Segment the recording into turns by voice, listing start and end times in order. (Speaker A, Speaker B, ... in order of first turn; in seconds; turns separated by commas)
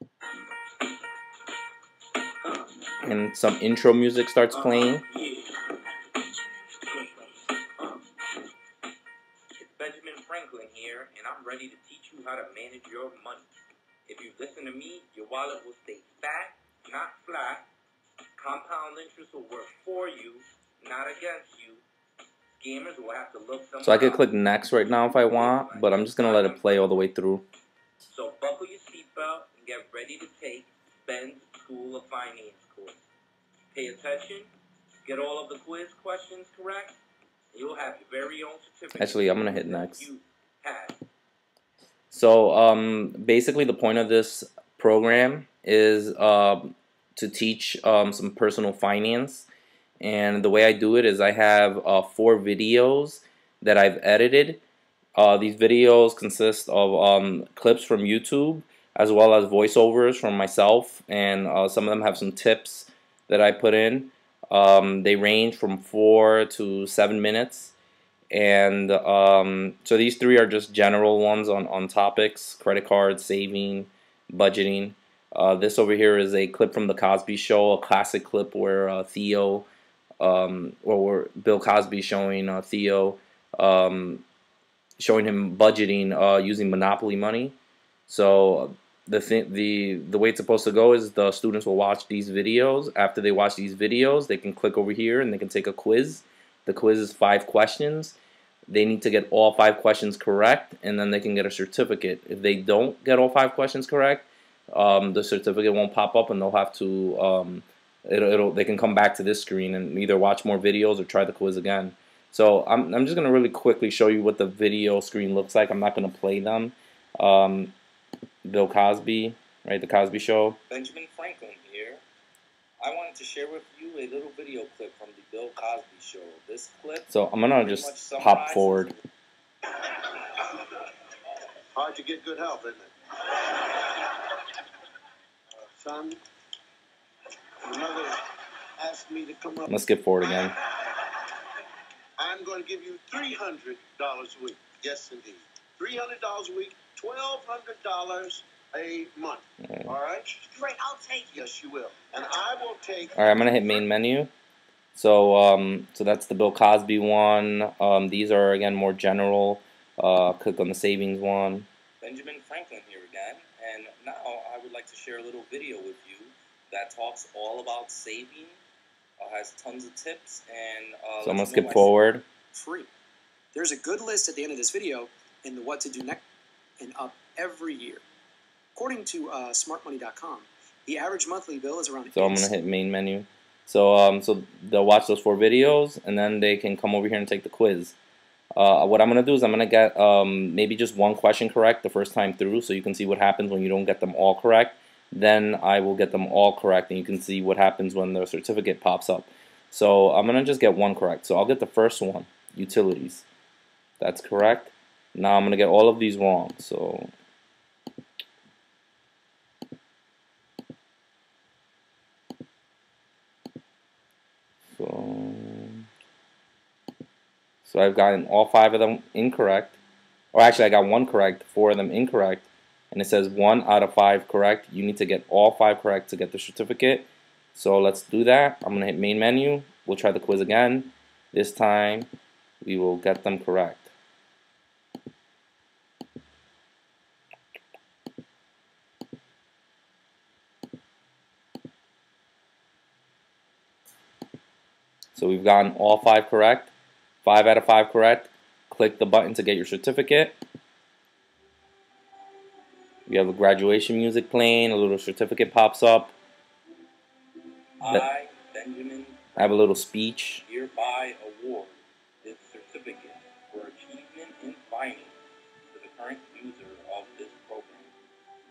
Speaker A: 3.0-5.0, Speaker B: 4.5-5.9, Speaker B: 6.8-8.3, Speaker B: 9.5-13.5, Speaker B: 14.1-17.7, Speaker B: 18.4-21.8, Speaker B: 22.6-24.2, Speaker A: 23.8-27.4, Speaker B: 24.9-27.1, Speaker B: 28.0-33.0, Speaker B: 33.7-34.5, Speaker B: 35.0-37.0, Speaker B: 37.5-41.0, Speaker A: 39.0-40.1, Speaker A: 42.1-49.5, Speaker A: 50.0-54.6, Speaker A: 55.2-67.7, Speaker A: 68.3-79.7, Speaker A: 80.2-84.2, Speaker A: 85.0-87.5, Speaker A: 88.1-98.2, Speaker A: 98.7-117.7, Speaker A: 118.4-120.6, Speaker B: 120.7-122.0, Speaker B: 122.8-129.0, Speaker A: 127.1-128.9, Speaker C: 131.7-134.3, Speaker C: 135.6-136.2, Speaker C: 137.6-138.2, Speaker C: 138.8-139.7, Speaker A: 139.7-140.6, Speaker C: 140.8-141.2, Speaker C: 142.2-153.3, Speaker A: 153.2-154.3, Speaker A: 154.9-161.7, Speaker B: 162.0-168.6, Speaker B: 169.2-171.9, Speaker A: 171.2-172.2, Speaker D: 172.5-172.9, Speaker D: 173.5-176.2, Speaker D: 176.8-178.0, Speaker D: 178.7-182.5, Speaker A: 182.1-187.9, Speaker A: 188.6-203.2, Speaker A: 204.0-207.1, Speaker A: 214.8-215.8, Speaker A: 217.6-219.8, Speaker A: 220.3-232.1, Speaker A: 232.6-233.9, Speaker A: 245.1-246.7, Speaker A: 247.2-250.4, Speaker A: 253.1-256.1, Speaker B: 257.8-259.2, Speaker A: 259.4-260.4, Speaker B: 260.4-265.1, Speaker B: 265.7-267.9